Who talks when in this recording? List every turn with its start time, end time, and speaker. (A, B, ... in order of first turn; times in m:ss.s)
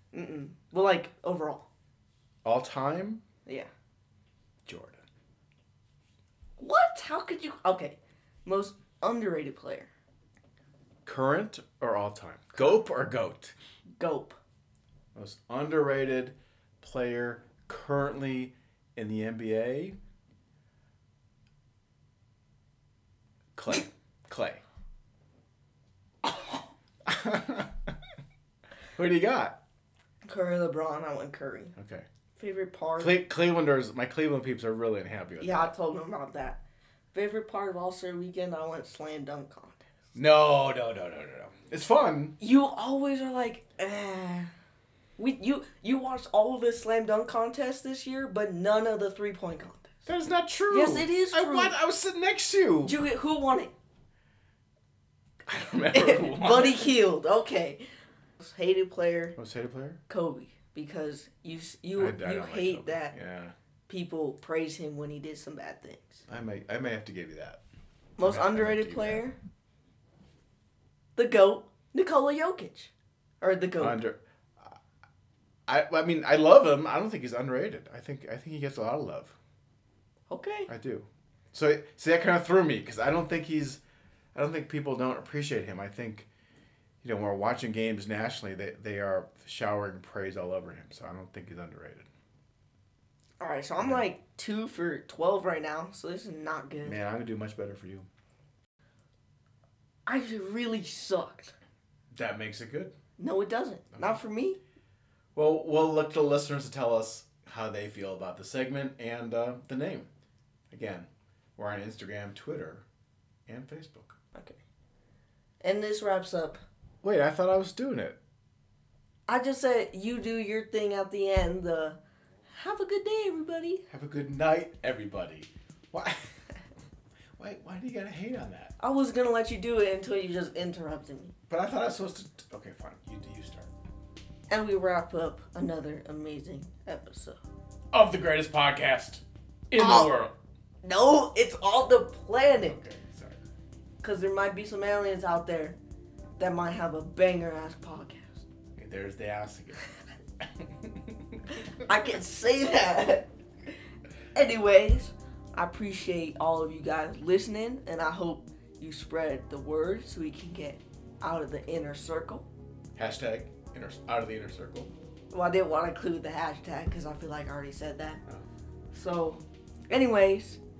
0:00.1-0:01.7 A
0:02.4-0:03.2 B
0:04.6-0:05.0 B
0:06.6-0:09.9 A
0:11.0-0:13.5 B
0:14.0-0:14.4 A
0:15.1-0:20.0 B
0:23.5-0:24.6 B
0:27.0-0:27.9 B
0:29.0-0:29.6 B
0:30.3-0:31.7 A
0:31.8-0:32.1 B
0:32.4-0:33.2 A
0:33.0-0:35.7 B
0:35.4-0:36.6 A
0:37.1-0:39.9 A
0:40.1-0:42.3 B
0:42.4-0:44.5 A
0:45.2-0:50.0 A
0:50.1-0:53.0 B
0:50.7-0:51.8 A
0:52.8-0:53.7 A
0:55.4-0:56.9 B
0:55.9-0:57.8 A
0:58.4-0:59.4 A
0:59.4-1:00.0 B
1:00.1-1:03.1 A
1:02.0-1:03.5 B
1:03.9-1:06.2 A
1:06.3-1:07.6 B
1:08.2-1:09.4 A
1:08.2-1:09.2 B
1:11.2-1:14.0 A
1:13.8-1:14.8 B
1:15.7-1:19.4 B
1:20.3-1:20.7 A
1:20.7-1:23.8 B
1:24.3-1:26.3 B
1:27.0-1:32.1 B
1:33.4-1:37.0 A
1:33.8-1:34.0 B
1:36.8-1:38.1 B
1:40.0-1:41.5 A
1:42.1-1:43.0 B
1:43.2-1:44.6 A
1:45.3-1:50.1 B
1:50.7-1:52.8 B
1:53.5-1:54.2 B
1:54.3-1:54.6 A
1:55.6-1:56.6 A
1:57.0-1:58.2 B
1:59.3-2:02.0 A
2:02.5-2:03.8 A
2:03.9-2:06.3 B
2:07.4-2:08.7 B
2:08.8-2:11.3 A
2:11.5-2:13.7 B
2:14.5-2:17.4 A
2:17.9-2:20.3 B
2:19.8-2:20.1 A
2:20.8-2:22.8 A
2:22.6-2:23.4 B
2:24.0-2:25.8 A
2:26.4-2:28.5 A
2:28.7-2:29.8 B
2:30.4-2:31.4 B
2:31.8-2:33.3 A
2:34.3-2:42.5 A
2:43.0-2:44.9 B
2:45.3-2:48.2 A
2:48.9-2:50.6 A